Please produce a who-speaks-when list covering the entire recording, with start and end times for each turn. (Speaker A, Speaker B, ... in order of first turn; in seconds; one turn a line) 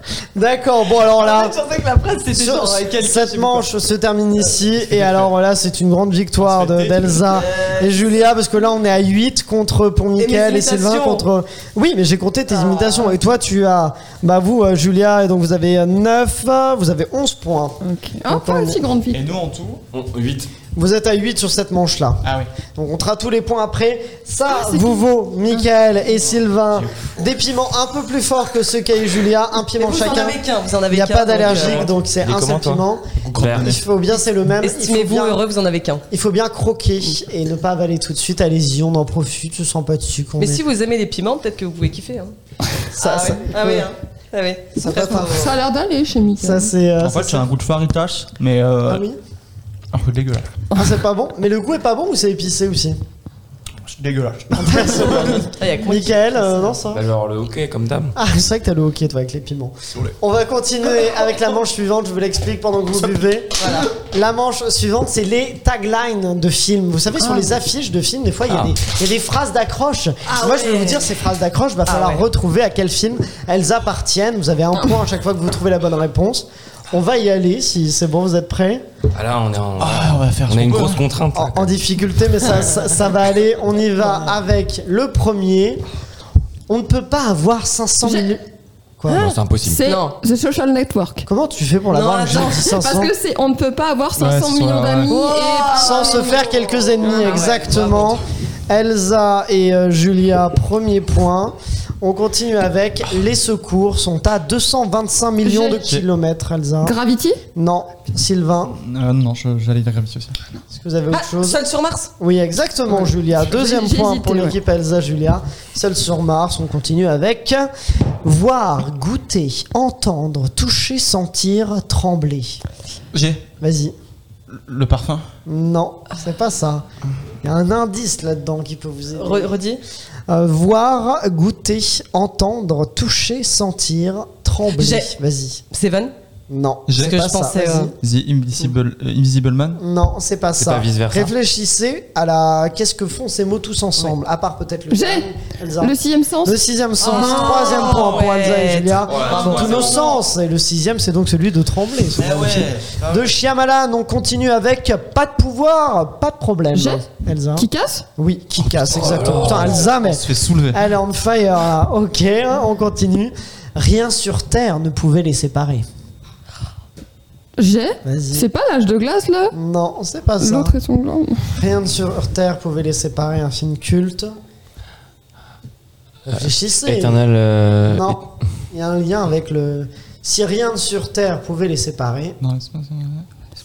Speaker A: 0.3-1.5
Speaker B: 1.2-3.6
Speaker A: 2.3-18.8
Speaker C: 4.9-5.3
Speaker C: 6.4-7.4
Speaker B: 7.4-8.0
Speaker B: 10.2-11.3
Speaker B: 12.5-13.1
Speaker D: 17.8-19.2
Speaker C: 19.1-19.8
Speaker E: 19.9-20.5
Speaker A: 20.7-22.2
Speaker C: 22.2-22.5
Speaker A: 22.8-35.4
Speaker D: 24.5-25.0
Speaker B: 29.8-31.9
Speaker E: 32.2-32.8
Speaker C: 33.2-33.8
Speaker E: 33.3-33.8
Speaker B: 34.6-36.0
Speaker A: 36.1-40.6
Speaker B: 40.4-42.3
Speaker B: 43.0-45.5
Speaker A: 43.0-43.9
Speaker A: 44.8-45.3
Speaker D: 45.3-46.7
Speaker A: 46.4-47.5
Speaker C: 47.0-49.0
Speaker A: 48.8-49.2
Speaker C: 49.9-50.5
Speaker A: 50.7-53.0
Speaker C: 53.8-55.4
Speaker A: 54.5-57.0
Speaker B: 55.6-56.7
Speaker E: 56.9-58.1
Speaker A: 58.1-78.8
Speaker B: 63.6-63.9
Speaker E: 68.5-68.7
Speaker B: 70.3-71.1
Speaker B: 71.9-72.2
Speaker E: 79.1-81.8
Speaker C: 79.8-81.0
Speaker A: 81.3-85.8
Speaker A: 86.7-88.4
Speaker D: 88.0-88.3
Speaker A: 89.0-89.3
Speaker E: 89.1-89.8
Speaker D: 89.6-91.3
Speaker B: 89.8-90.1
Speaker A: 91.2-93.1
Speaker B: 91.9-92.6
Speaker D: 92.6-96.3
Speaker C: 94.2-95.1
Speaker B: 95.1-98.2
Speaker A: 95.7-107.0
Speaker D: 97.0-97.5
Speaker D: 105.4-105.8
Speaker D: 106.8-107.4
Speaker A: 107.5-108.8
Speaker C: 108.8-110.3
Speaker A: 110.7-111.6
Speaker B: 111.1-112.1
Speaker A: 112.2-117.7
Speaker D: 113.4-114.5
Speaker A: 118.2-122.6
Speaker C: 123.1-123.4
Speaker A: 123.6-123.9
Speaker C: 124.5-125.2
Speaker A: 125.5-126.8
Speaker A: 127.4-129.5
Speaker B: 129.2-129.8
Speaker A: 130.3-135.6
Speaker B: 134.8-135.1
Speaker B: 135.7-136.1
Speaker A: 136.5-137.9
Speaker C: 136.9-137.2
Speaker B: 137.0-137.9
Speaker C: 138.0-139.8
Speaker A: 139.8-165.8
Speaker E: 140.6-141.3
Speaker D: 144.9-145.3
Speaker D: 145.8-146.6
Speaker B: 147.0-150.0
Speaker E: 149.0-150.2
Speaker C: 152.2-153.3
Speaker D: 156.7-157.0
Speaker D: 157.6-158.1
Speaker C: 158.7-160.8
Speaker E: 158.9-159.9
Speaker D: 167.6-169.5
Speaker A: 168.0-168.5
Speaker A: 169.5-170.8
Speaker D: 170.4-171.5
Speaker A: 171.6-174.3
Speaker A: 176.3-177.2
Speaker E: 176.3-178.2
Speaker A: 177.8-182.4
Speaker C: 182.4-183.2